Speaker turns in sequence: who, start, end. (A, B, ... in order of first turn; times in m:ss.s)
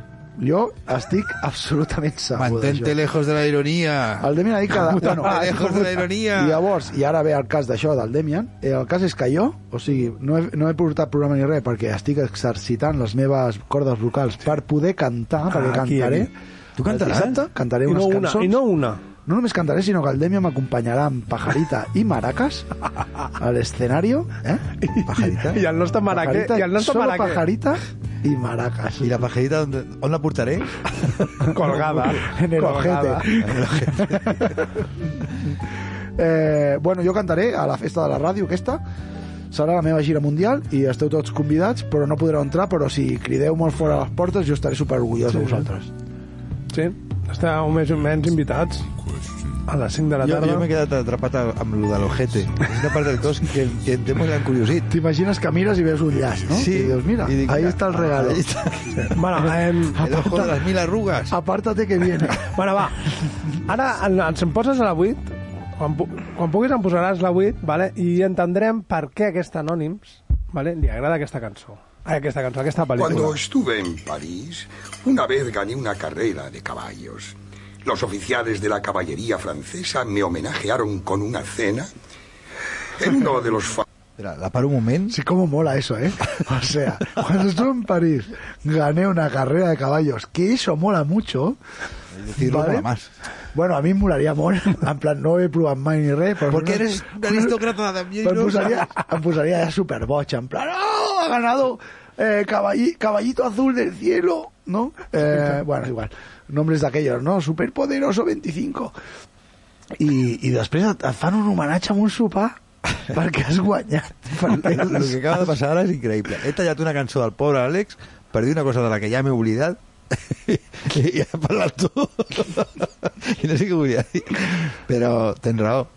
0:00.4-0:03.0 A
0:02.4-0:06.6 B
0:04.2-0:16.3 A
0:04.8-0:06.0 C
0:15.4-0:16.3 C
0:16.8-0:17.3 B
0:16.8-0:18.6 A
0:17.9-0:19.0 C
0:19.2-0:22.7 A
0:23.3-0:24.6 A
0:24.8-0:27.4 C
0:25.0-0:25.6 B
0:26.0-0:29.2 A
0:29.0-0:31.8 B
0:31.5-0:33.4 C
0:31.7-0:34.5 A
0:33.4-0:34.4 B
0:36.2-0:38.8 A
0:39.5-0:45.9 A
0:45.3-0:45.7 C
0:46.7-0:48.9 C
0:49.6-0:50.7 C
0:50.2-0:54.9 B
0:54.9-0:58.4 A
0:56.5-0:59.0 B
0:58.9-1:00.0 C
0:59.9-1:00.6 A
0:59.9-1:01.4 B
1:01.3-1:02.5 A
1:02.5-1:13.4 C
1:13.0-1:21.9 D
1:23.0-1:23.8 D
1:24.2-1:25.2 B
1:25.1-1:31.6 A
1:32.1-1:33.1 B
1:32.3-1:32.9 A
1:33.5-1:37.6 A
1:36.5-1:38.9 B
1:38.2-1:48.9 A
1:50.0-1:55.5 A
1:54.5-2:05.9 B